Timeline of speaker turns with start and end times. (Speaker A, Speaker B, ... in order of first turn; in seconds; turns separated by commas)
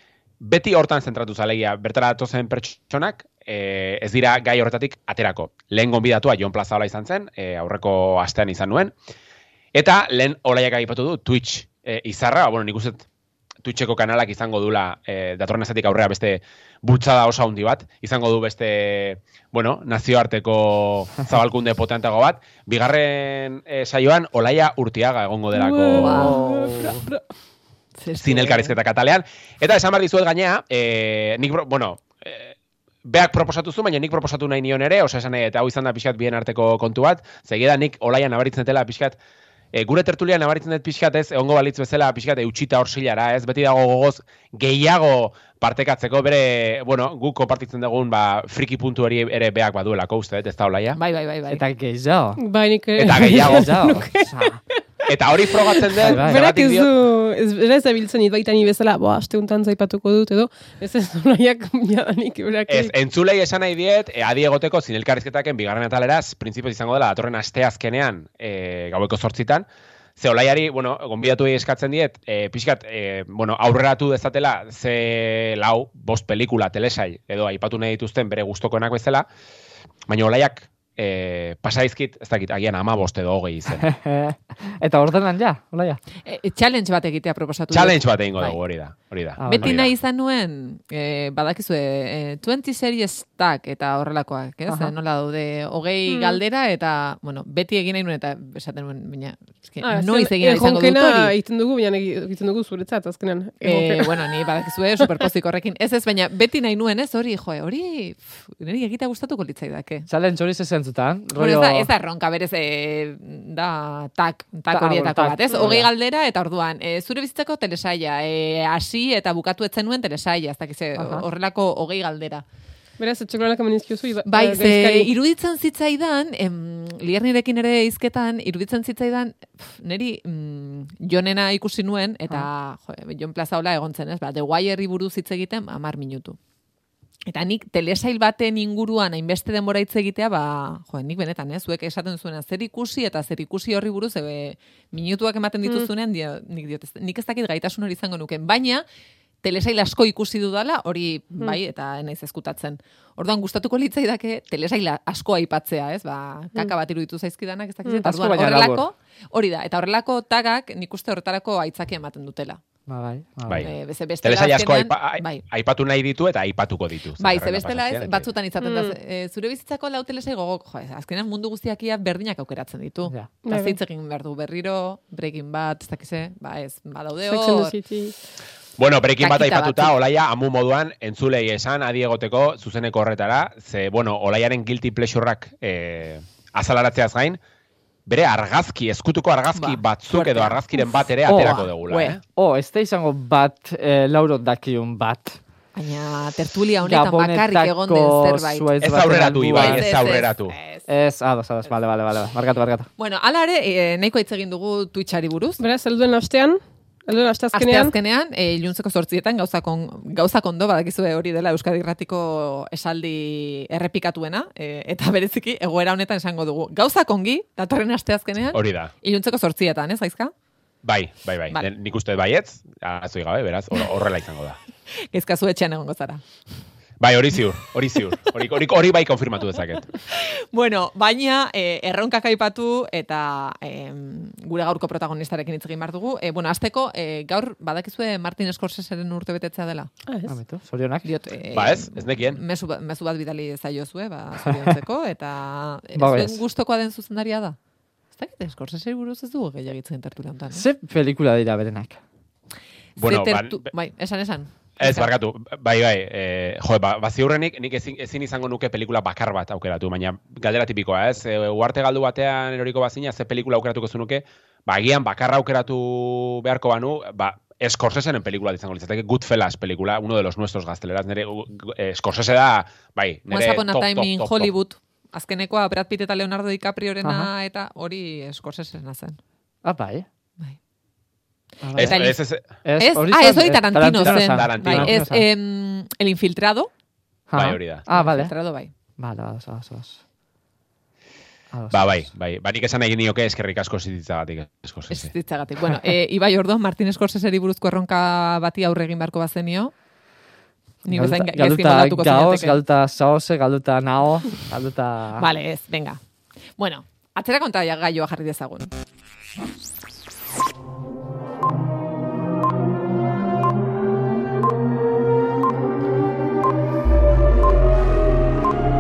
Speaker A: 0.4-8.9, Speaker A: 9.7-13.0, Speaker A: 13.6-26.3, Speaker B: 25.5-27.2, Speaker C: 26.0-26.4, Speaker D: 26.1-27.0, Speaker C: 28.0-28.8, Speaker A: 28.2-39.2, Speaker A: 39.7-51.0, Speaker C: 51.0-51.6, Speaker D: 51.5-52.4, Speaker B: 52.4-54.6, Speaker A: 53.0-53.9, Speaker D: 53.2-54.6, Speaker A: 55.1-56.9, Speaker B: 55.3-62.9, Speaker D: 56.0-56.4, Speaker A: 62.7-69.7, Speaker A: 70.2-79.2, Speaker A: 80.1-83.9, Speaker D: 83.8-86.0, Speaker C: 86.2-88.6, Speaker A: 87.7-89.9, Speaker D: 89.4-89.8, Speaker C: 89.5-101.3, Speaker D: 94.7-94.9, Speaker B: 96.1-96.4, Speaker B: 99.8-104.3, Speaker C: 103.6-110.1, Speaker D: 110.1-111.9, Speaker C: 111.4-122.4, Speaker D: 114.7-115.9, Speaker D: 121.0-121.2, Speaker B: 123.0-125.1, Speaker C: 124.3-136.4, Speaker C: 137.3-148.8, Speaker C: 149.4-162.6, Speaker D: 158.0-158.9, Speaker D: 162.9-163.6, Speaker A: 163.5-168.3, Speaker C: 163.6-165.4, Speaker C: 167.2-177.7, Speaker B: 168.6-169.0, Speaker B: 173.4-173.8, Speaker B: 177.3-178.2, Speaker A: 178.8-187.4, Speaker C: 179.2-179.9, Speaker A: 188.1-192.2, Speaker C: 189.6-192.1, Speaker D: 191.3-195.4, Speaker C: 195.8-198.7, Speaker D: 196.8-199.9, Speaker A: 198.8-200.5, Speaker C: 199.6-200.8, Speaker D: 200.9-202.9, Speaker C: 203.0-205.6, Speaker B: 205.6-207.9, Speaker C: 207.5-220.3, Speaker A: 218.5-218.9, Speaker A: 220.8-224.6, Speaker C: 225.0-226.2, Speaker A: 227.0-229.9, Speaker C: 230.1-239.9, Speaker B: 240.1-240.4, Speaker D: 240.3-241.1, Speaker C: 241.0-247.6, Speaker A: 241.5-242.4, Speaker D: 246.0-246.4, Speaker C: 248.1-250.6, Speaker D: 250.5-252.0, Speaker C: 253.0-255.1, Speaker A: 253.0-253.7, Speaker A: 254.8-274.5, Speaker C: 273.3-279.2, Speaker D: 277.0-277.3, Speaker D: 279.6-280.1, Speaker D: 281.6-282.0, Speaker C: 281.7-282.2, Speaker A: 281.8-282.4, Speaker D: 282.6-285.2, Speaker C: 282.8-286.7, Speaker A: 284.0-284.9, Speaker D: 287.3-288.3, Speaker A: 287.4-287.8, Speaker C: 287.9-288.7, Speaker D: 289.0-290.0, Speaker D: 291.5-292.1, Speaker A: 291.7-295.1, Speaker C: 294.9-299.8, Speaker C: 300.9-302.6, Speaker D: 300.9-305.2, Speaker C: 305.2-308.7